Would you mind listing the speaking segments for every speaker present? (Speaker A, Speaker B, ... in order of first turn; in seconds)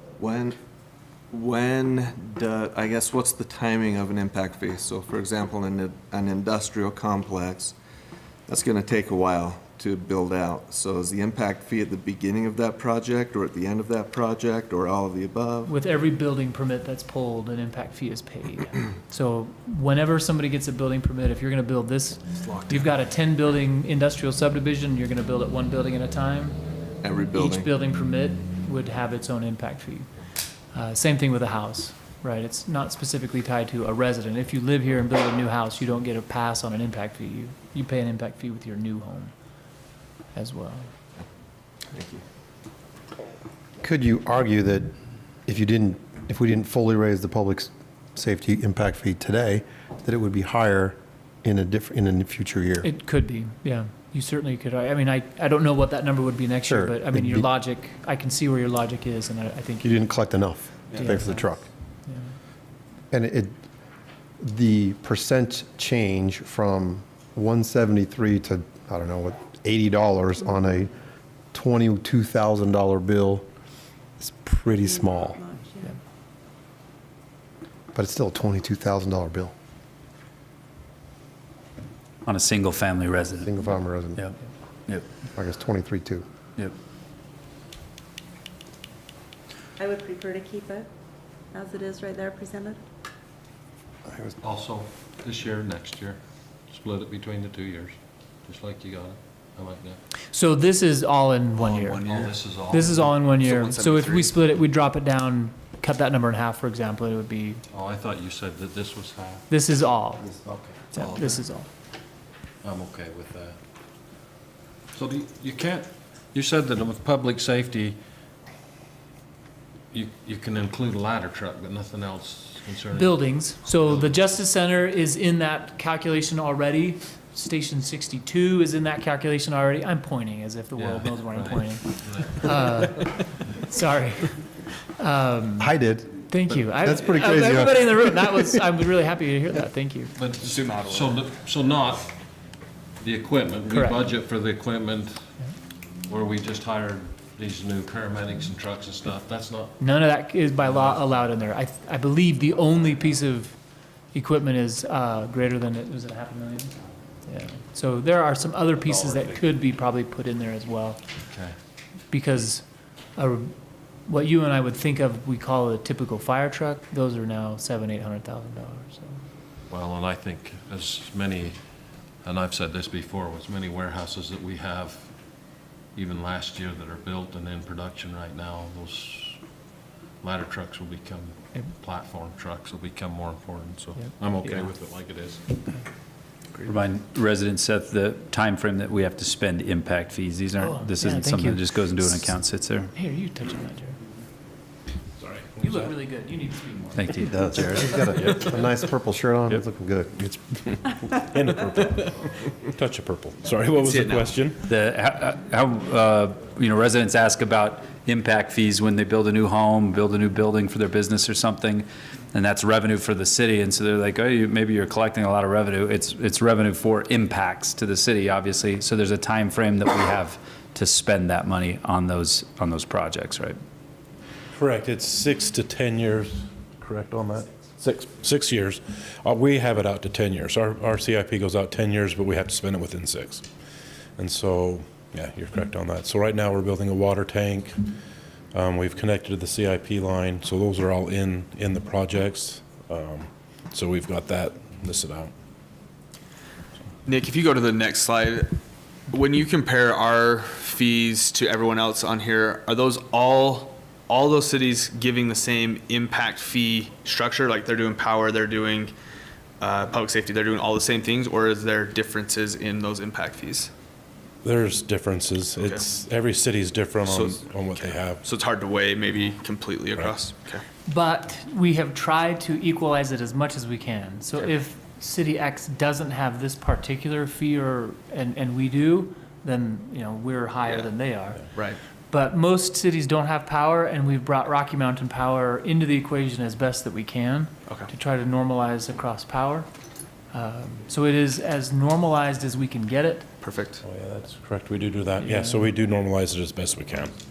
Speaker A: 0.2-0.6, 1.3-7.8, 8.5-15.7, 22.4-22.8, 27.0-27.7, 41.9-42.2
Speaker B: 15.7-26.6, 27.4-30.1, 30.7-39.3, 40.3-40.9, 52.8-60.0, 61.0-61.5, 62.1-62.3, 100.3-102.0, 102.7-107.6, 109.5-110.3, 110.9-111.7, 122.9-135.7, 136.3-140.1, 143.7-144.0, 149.8-161.0, 162.1-169.2, 184.0-184.7, 190.6-192.4, 192.9-194.0, 195.6-197.2, 270.9-281.5, 282.1-289.7, 290.3-293.3, 295.2-295.7
Speaker C: 43.8-45.0, 45.5-52.9, 56.6-57.5, 59.8-61.7, 63.1-63.6, 64.4-71.0, 71.5-73.5, 74.2-75.4, 77.9-79.5, 83.3-84.3, 85.3-86.2, 110.2-110.7, 135.6-138.6, 197.3-200.3
Speaker D: 74.7-76.0, 89.8-90.9, 91.5-92.8
Speaker E: 82.3-83.6, 186.6-192.9, 196.9-197.5, 204.6-223.6
Speaker F: 94.4-100.0, 102.0-103.2, 107.7-109.5, 112.6-113.6, 114.9-118.0, 119.9-123.3, 130.8-132.7, 140.2-142.3, 143.0-145.2, 146.1-149.8, 150.7-151.0, 161.3-161.6, 169.7-171.6, 172.2-175.2, 175.9-179.4, 180.2-185.6
Speaker G: 140.4-141.3, 203.8-204.4, 247.1-248.5, 249.1-258.9, 259.6-263.7, 265.6-265.9, 267.0-270.6, 293.4-293.8
Speaker H: 195.2-195.9, 200.8-204.7, 224.5-233.5, 234.2-237.8, 238.5-245.3, 264.4-268.2, 293.8-297.1